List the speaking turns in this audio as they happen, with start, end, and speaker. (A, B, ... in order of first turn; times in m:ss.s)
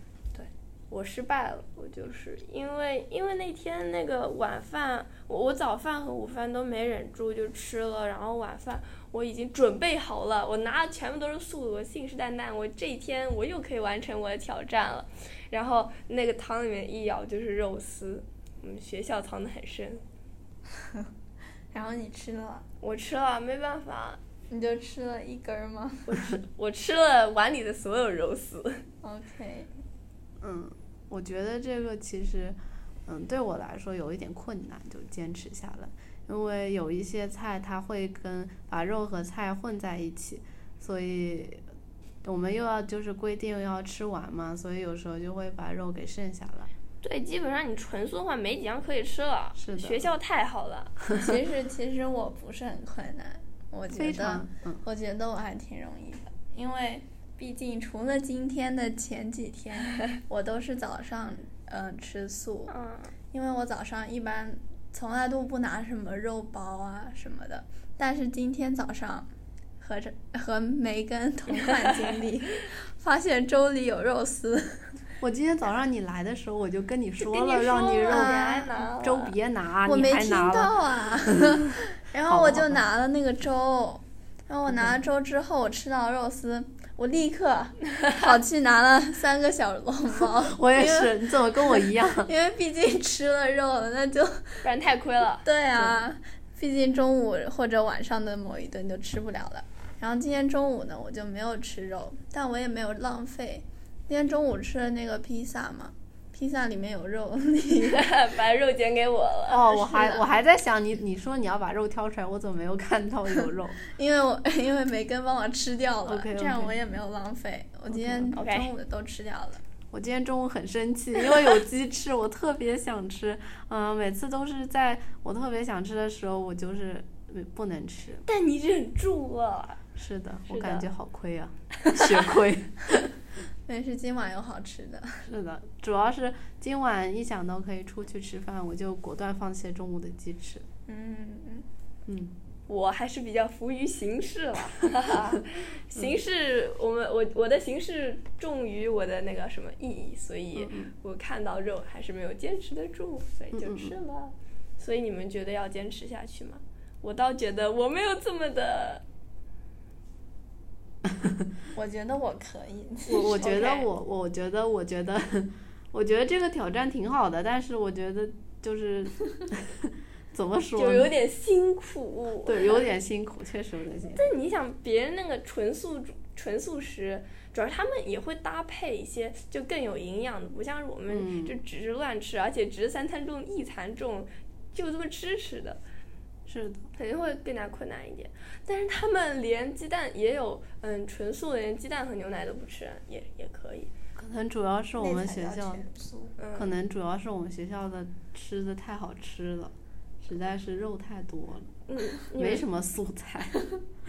0:00.3-0:20.0 A
0:21.7-0:22.7 B
0:22.8-0:24.2 A
0:24.5-0:26.4 B
0:26.1-0:28.8 A
0:29.0-0:29.7 B
0:30.4-0:41.6 C
0:42.2-0:46.7 C
0:47.0-0:51.2 A
0:49.6-0:50.1 C
0:51.1-1:02.7 B
0:53.9-0:54.8 C
1:02.7-1:03.1 A
1:03.3-1:09.3 B
1:09.8-1:15.0 B
1:15.2-1:21.6 C
1:17.2-1:19.3 A
1:18.1-1:18.8 B
1:19.8-1:34.6 B
1:22.3-1:22.8 C
1:24.7-1:25.0 C
1:28.0-1:28.3 A
1:30.3-1:32.3 C
1:34.6-1:35.4 A
1:35.4-1:48.1 B
1:47.8-1:49.6 A
1:49.5-1:53.8 C
1:49.7-1:50.2 B
1:53.8-1:59.6 B
1:56.1-1:56.8 C
1:57.9-1:58.4 C
1:58.4-1:58.7 A
1:59.9-2:08.2 C
2:08.2-2:09.8 A
2:10.0-2:13.1 C
2:10.5-2:10.9 A
2:13.7-2:15.3 B
2:15.2-2:20.6 C
2:20.9-2:21.7 B
2:22.1-2:22.4 C
2:22.7-2:39.0 A
2:30.6-2:30.9 C
2:33.5-2:34.0 C
2:41.0-2:41.5 C
2:41.7-2:43.6 B
2:43.1-2:51.1 C
2:43.4-2:43.9 A
2:50.8-2:52.9 A
2:52.4-2:54.3 C
2:54.1-3:05.8 A
3:01.1-3:01.6 C
3:06.5-3:06.8 C
3:07.0-3:13.9 A
3:14.2-3:15.8 C
3:15.0-3:16.3 B
3:16.4-3:16.7 A
3:16.5-3:21.7 C
3:21.9-3:22.6 A
3:22.3-3:23.7 C